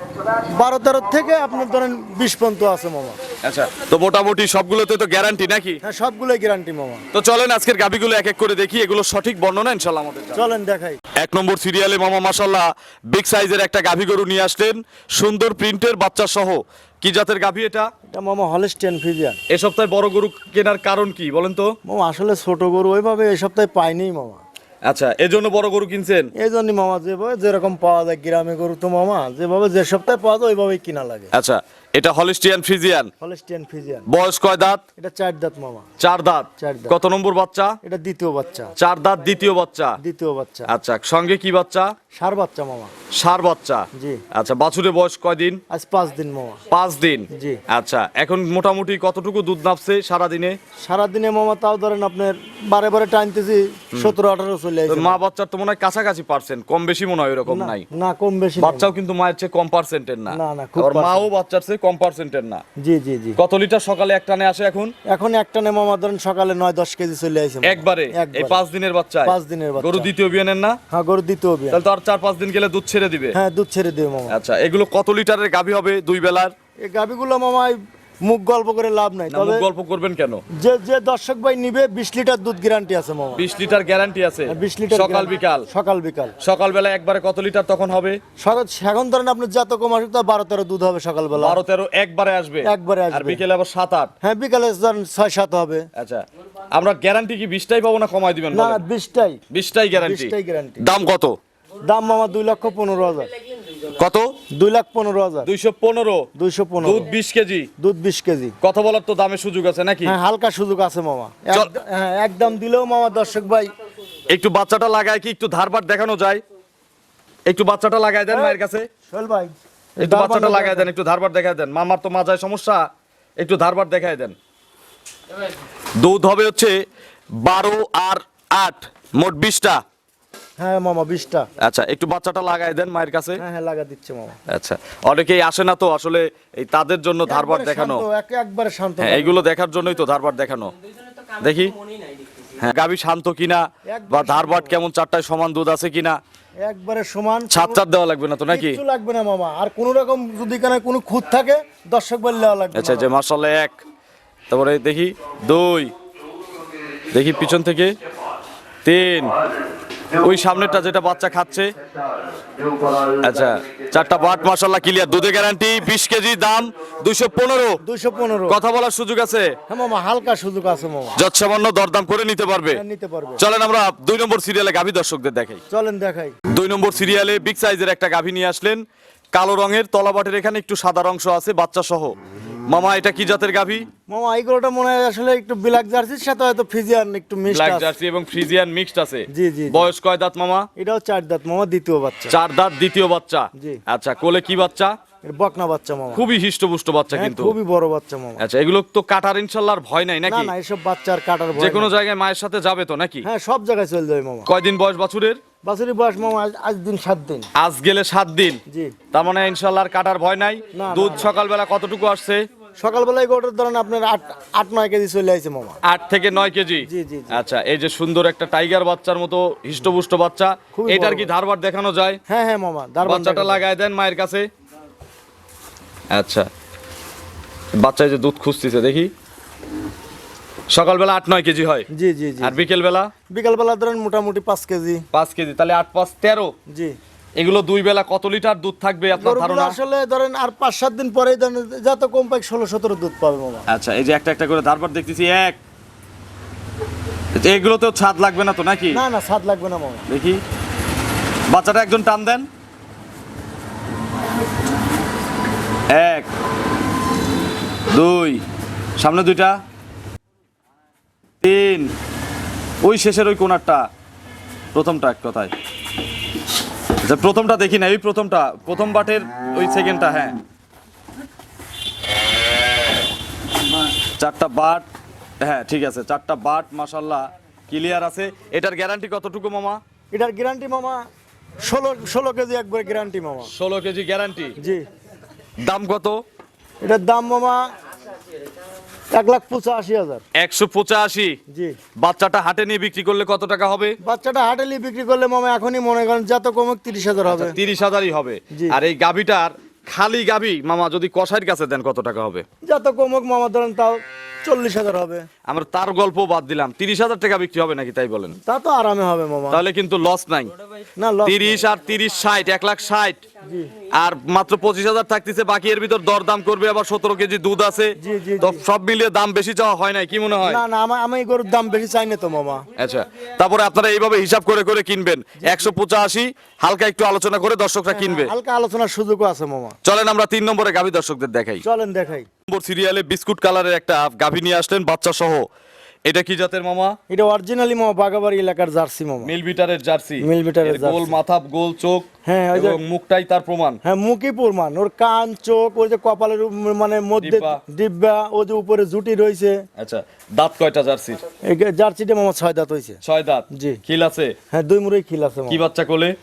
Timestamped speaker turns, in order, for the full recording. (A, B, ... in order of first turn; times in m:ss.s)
0:00.6-0:03.2 A
0:03.4-0:05.8 B
0:05.8-0:07.0 A
0:07.1-0:10.5 B
0:10.4-0:11.0 A
0:11.2-0:17.9 B
0:18.1-0:19.4 A
0:19.5-0:21.7 B
0:21.8-0:24.4 A
0:24.9-0:26.3 B
0:26.4-0:31.3 A
0:31.3-0:33.1 B
0:33.2-0:34.1 A
0:34.1-0:34.8 B
0:35.0-0:35.8 A
0:36.0-0:37.8 B
0:36.6-0:37.0 A
0:37.8-0:38.7 A
0:38.8-0:40.0 B
0:40.0-0:40.7 A
0:40.7-0:41.9 B
0:42.2-0:42.9 A
0:43.1-0:45.6 B
0:44.0-0:44.2 A
0:45.7-0:46.6 A
0:46.7-0:50.6 B
0:47.3-0:47.6 A
0:50.8-0:55.2 A
0:54.9-0:57.9 B
0:57.5-0:58.9 A
0:58.6-1:02.6 B
1:00.3-1:01.3 A
1:02.8-1:03.4 A
1:03.4-1:04.9 B
1:05.1-1:08.6 A
1:07.6-1:10.8 B
1:09.2-1:10.1 A
1:10.9-1:11.8 A
1:11.7-1:13.4 B
1:13.4-1:14.4 A
1:14.3-1:16.5 B
1:16.8-1:19.7 A
1:19.3-1:20.4 B
1:20.6-1:23.4 A
1:23.4-1:25.7 B
1:24.5-1:26.4 A
1:26.4-1:28.2 B
1:28.4-1:31.6 A
1:31.4-1:34.1 B
1:32.6-1:33.4 A
1:34.2-1:35.9 A
1:36.0-1:38.8 B
1:38.5-1:39.4 A
1:39.5-1:41.4 B
1:40.0-1:40.8 A
1:41.9-1:43.3 A
1:43.9-1:44.4 B
1:44.5-1:45.5 A
1:45.4-1:46.3 B
1:46.4-1:47.1 A
1:46.8-1:47.7 B
1:47.8-1:48.6 A
1:48.6-1:50.2 B
1:50.0-1:53.7 A
1:54.3-1:56.4 B
1:57.5-1:58.9 B
1:58.3-2:00.9 A
2:00.0-2:02.9 B
2:03.4-2:04.4 B
2:06.0-2:06.8 B
2:07.4-2:09.8 B
2:10.6-2:11.5 A
2:11.6-2:13.4 B
2:13.4-2:14.4 A
2:14.5-2:18.1 B
2:17.3-2:19.5 A
2:19.0-2:20.7 B
2:21.4-2:21.8 B
2:22.6-2:26.2 B
2:23.9-2:24.8 A
2:26.6-2:27.8 A
2:27.5-2:28.8 B
2:28.5-2:33.1 A
2:32.8-2:33.8 B
2:34.5-2:35.9 B
2:37.1-2:37.9 B
2:38.8-2:39.4 B
2:40.2-2:41.7 B
2:43.2-2:47.8 B
2:47.8-2:48.6 A
2:48.5-2:49.5 B
2:49.7-2:51.2 A
2:51.2-2:52.8 B
2:52.7-2:53.4 A
2:53.4-2:55.6 B
2:55.7-2:56.4 A
2:56.5-2:58.8 B
2:59.3-3:02.2 B
3:02.7-3:03.9 B
3:04.1-3:07.9 A
3:07.5-3:10.7 B
3:09.3-3:09.9 A
3:10.8-3:12.4 A
3:12.3-3:14.9 B
3:15.2-3:16.3 A
3:16.1-3:17.6 B
3:17.1-3:18.4 A
3:18.4-3:20.5 B
3:20.3-3:21.9 A
3:21.6-3:23.3 B
3:23.2-3:24.5 A
3:24.5-3:25.4 B
3:25.6-3:27.5 A
3:27.6-3:28.6 B
3:28.7-3:29.0 A
3:29.1-3:32.4 B
3:30.7-3:31.3 A
3:32.8-3:35.8 A
3:35.8-3:42.2 B
3:36.9-3:37.4 A
3:40.7-3:41.3 A
3:42.3-3:43.6 A
3:43.0-3:44.5 B
3:46.1-3:46.5 B
3:47.8-3:49.1 B
3:50.7-3:51.9 B
3:51.9-3:52.6 A
3:52.4-3:53.1 B
3:53.3-3:55.0 A
3:55.1-3:56.5 B
3:56.7-3:57.0 A
3:57.4-3:59.8 B
3:59.1-4:03.7 A
4:03.7-4:05.6 B
4:07.4-4:09.0 B
4:08.9-4:10.1 A
4:10.1-4:10.4 B
4:11.5-4:12.5 B
4:15.9-4:16.3 B
4:17.9-4:18.4 B
4:19.0-4:19.6 B
4:21.4-4:21.9 B
4:22.8-4:23.9 B
4:24.7-4:25.5 B
4:27.0-4:30.4 B
4:34.2-4:34.9 B
4:35.4-4:39.8 B
4:40.1-4:41.0 A
4:41.6-4:43.5 A
4:43.5-4:44.6 B
4:44.6-4:44.8 A
4:45.6-4:46.2 B
4:46.8-4:47.7 A
4:49.1-4:50.2 A
4:50.4-4:51.4 B
4:51.5-4:51.8 A
4:52.0-4:54.0 B
4:54.0-4:57.6 A
4:57.3-5:02.4 B
4:58.5-4:58.8 A
5:02.6-5:05.3 A
5:05.5-5:08.4 B
5:08.5-5:09.6 A
5:09.5-5:10.5 B
5:11.0-5:11.7 A
5:11.2-5:13.2 B
5:13.4-5:13.7 A
5:13.9-5:20.6 B
5:18.0-5:18.6 A
5:20.4-5:22.6 A
5:22.8-5:28.3 B
5:25.4-5:25.7 A
5:27.9-5:29.8 A
5:29.8-5:31.6 B
5:31.6-5:32.3 A
5:32.5-5:35.5 B
5:36.1-5:37.0 B
5:37.1-5:39.3 A
5:39.2-5:43.8 B
5:40.2-5:41.2 A
5:42.3-5:42.8 A
5:43.8-5:49.7 A
5:47.2-5:47.6 B
5:49.8-5:51.2 B
5:51.4-5:53.0 A
5:53.0-5:54.4 B
5:53.5-5:53.8 A
5:54.5-5:55.6 A
5:55.5-5:56.2 B